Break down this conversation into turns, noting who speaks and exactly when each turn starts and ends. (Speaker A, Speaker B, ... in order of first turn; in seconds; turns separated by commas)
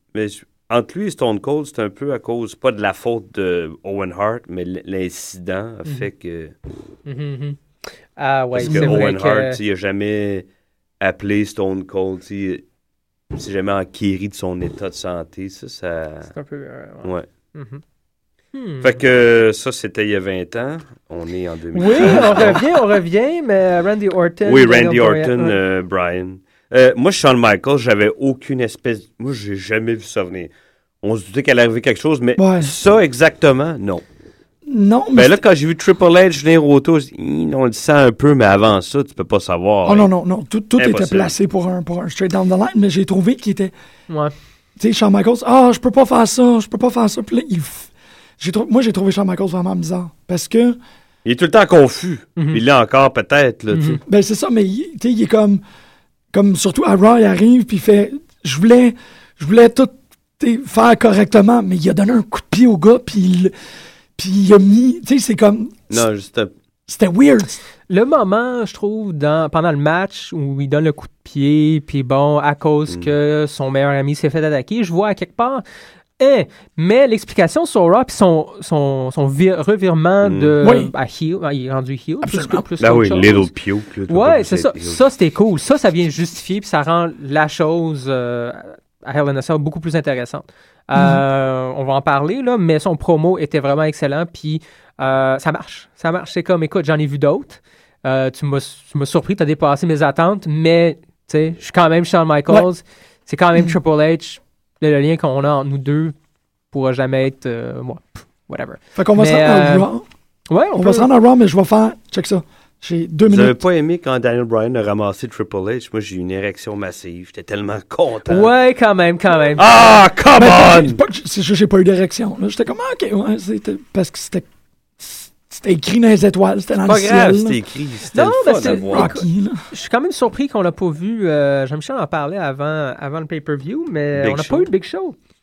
Speaker A: 0.1-6.5, Speaker B: 7.0-7.6, Speaker B: 8.2-9.6, Speaker A: 8.5-10.5, Speaker C: 8.7-9.0, Speaker A: 11.0-12.6, Speaker A: 13.3-16.3, Speaker B: 16.3-17.8, Speaker B: 18.5-19.0, Speaker A: 18.8-22.7, Speaker B: 21.7-25.6, Speaker C: 22.0-22.5, Speaker A: 24.4-30.5, Speaker A: 31.0-34.0, Speaker C: 32.4-32.7, Speaker C: 34.6-35.4, Speaker A: 35.1-40.1, Speaker C: 39.8-43.7, Speaker A: 40.8-41.3, Speaker B: 44.1-44.3, Speaker C: 44.8-50.8, Speaker A: 51.2-54.0, Speaker B: 53.7-54.0, Speaker C: 54.0-55.6, Speaker C: 56.3-63.5, Speaker C: 64.2-66.0, Speaker A: 65.9-66.5, Speaker C: 66.9-67.6, Speaker B: 67.9-75.6, Speaker B: 76.2-83.5, Speaker A: 80.2-80.5, Speaker C: 80.6-80.9, Speaker C: 82.2-82.7, Speaker A: 82.8-85.0, Speaker B: 84.1-106.1, Speaker C: 90.9-91.2, Speaker B: 106.7-109.9, Speaker C: 108.9-110.0, Speaker B: 110.5-111.1, Speaker C: 110.7-113.6, Speaker A: 113.3-118.5, Speaker B: 118.3-119.7, Speaker A: 119.6-121.0, Speaker C: 120.3-124.5, Speaker C: 125.0-127.6, Speaker A: 126.8-129.1, Speaker B: 128.1-135.2, Speaker C: 128.6-129.6, Speaker A: 134.1-134.7